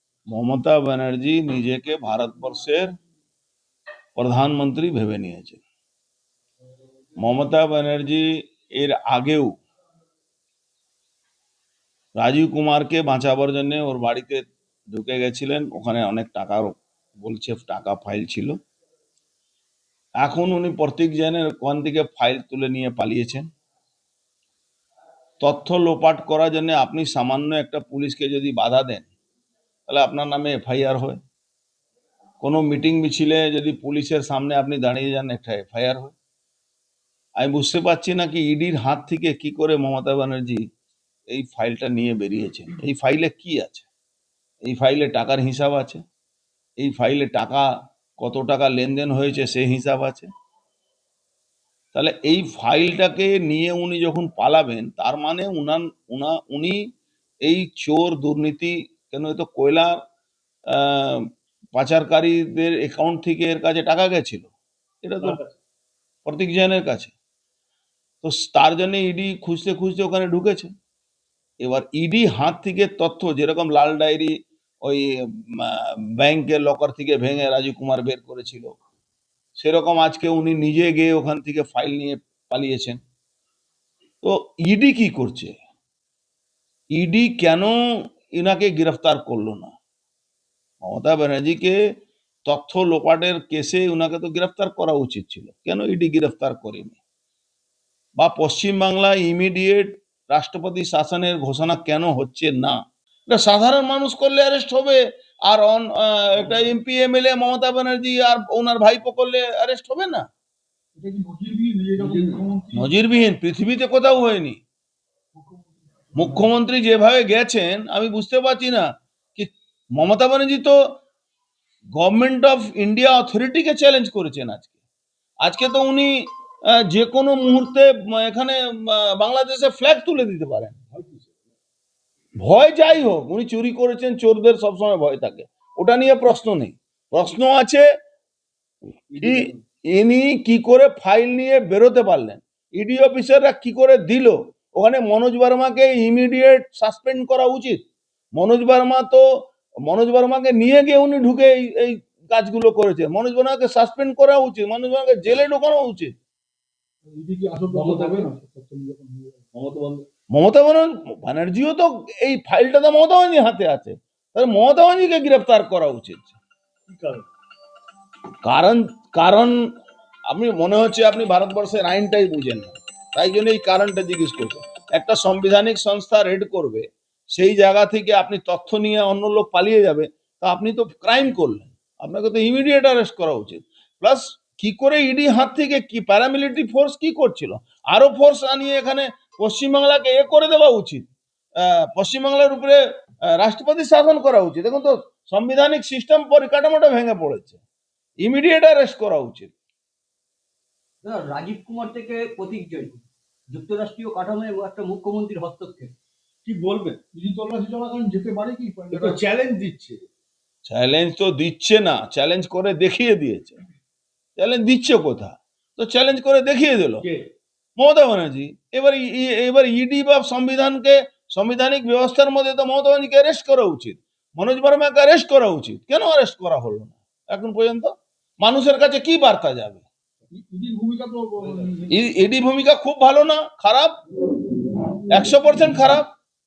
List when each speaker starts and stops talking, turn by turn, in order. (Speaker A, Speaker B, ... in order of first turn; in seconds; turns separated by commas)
Speaker A: 0.3-2.9, Speaker A: 4.2-5.6, Speaker A: 7.2-9.6, Speaker A: 12.2-18.6, Speaker A: 20.2-23.5, Speaker A: 25.4-29.1, Speaker A: 29.9-31.2, Speaker A: 32.4-36.1, Speaker A: 37.4-40.7, Speaker A: 41.3-43.9, Speaker A: 44.6-46.0, Speaker A: 46.8-50.3, Speaker A: 51.9-56.8, Speaker A: 57.4-60.0, Speaker A: 60.7-64.5, Speaker A: 65.0-65.4, Speaker A: 66.2-67.1, Speaker A: 68.2-70.7, Speaker A: 71.6-78.8, Speaker A: 79.5-83.0, Speaker A: 84.2-85.6, Speaker A: 86.9-89.8, Speaker A: 90.8-91.8, Speaker A: 92.5-97.0, Speaker A: 98.2-110.2, Speaker B: 111.0-112.9, Speaker C: 112.0-112.4, Speaker A: 112.7-114.6, Speaker B: 115.3-116.4, Speaker A: 116.1-121.0, Speaker A: 122.0-124.7, Speaker A: 125.4-130.8, Speaker C: 130.9-131.4, Speaker A: 132.4-137.8, Speaker C: 139.1-139.6, Speaker A: 139.2-147.8, Speaker A: 148.3-156.2, Speaker B: 157.0-159.5, Speaker C: 157.7-158.3, Speaker C: 159.5-160.1, Speaker A: 160.3-166.4, Speaker C: 166.9-167.3, Speaker A: 168.4-169.7, Speaker A: 170.3-191.1, Speaker A: 191.6-192.8, Speaker A: 193.3-197.6, Speaker A: 198.2-199.5, Speaker D: 201.0-205.9, Speaker C: 206.4-207.0, Speaker B: 207.1-209.2, Speaker C: 208.9-210.0, Speaker A: 210.7-213.6, Speaker A: 214.3-217.1, Speaker A: 217.8-229.8, Speaker B: 230.3-231.9, Speaker A: 231.9-234.0, Speaker A: 235.1-236.1